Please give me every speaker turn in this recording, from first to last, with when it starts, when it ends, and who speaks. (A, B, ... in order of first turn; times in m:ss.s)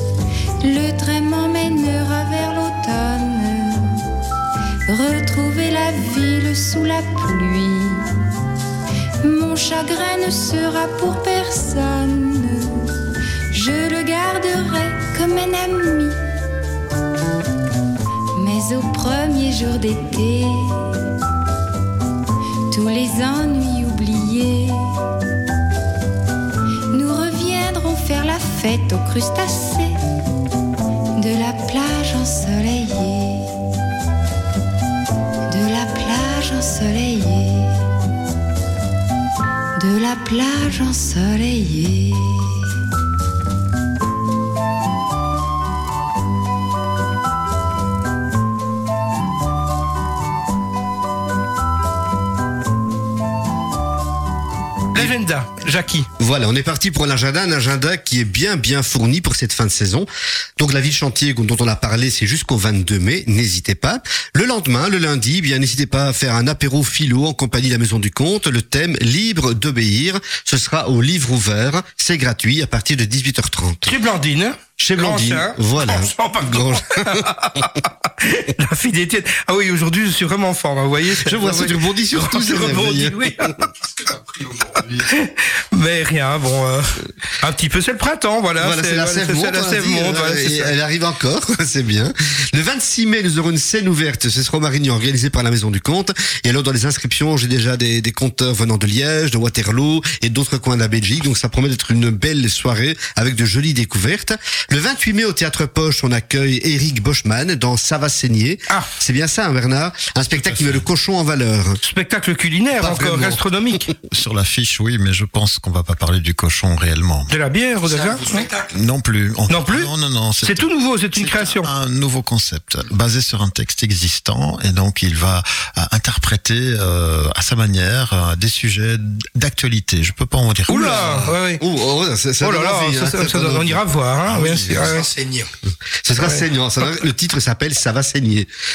0:00.6-0:04.0 A
0:04.9-0:08.1 A
0:09.2-0:13.0 A
0:13.5-0:16.2 A
0:18.3-0:20.9 A
0:22.7-0:24.9 A
0:26.9-0:30.0 A
0:31.2-0:33.6 A
0:35.5-0:37.8 A
0:39.8-0:42.8 A
0:54.9-0:56.1 B
0:56.2-1:13.9 C
1:13.8-1:23.6 B
1:14.8-1:17.2 C
1:21.2-1:23.6 C
1:24.4-1:24.8 D
1:25.0-1:30.7 B
1:28.6-1:51.8 C
1:51.8-1:53.9 B
1:52.8-1:53.4 C
1:54.1-1:57.3 E
1:57.3-1:58.5 B
1:57.8-1:58.8 D
1:58.7-2:11.2 E
1:59.5-1:59.9 B
2:00.4-2:01.7 B
2:10.7-2:11.6 B
2:10.7-2:15.0 C
2:12.4-2:15.0 B
2:14.3-2:15.5 D
2:16.0-2:18.5 C
2:16.2-2:16.4 B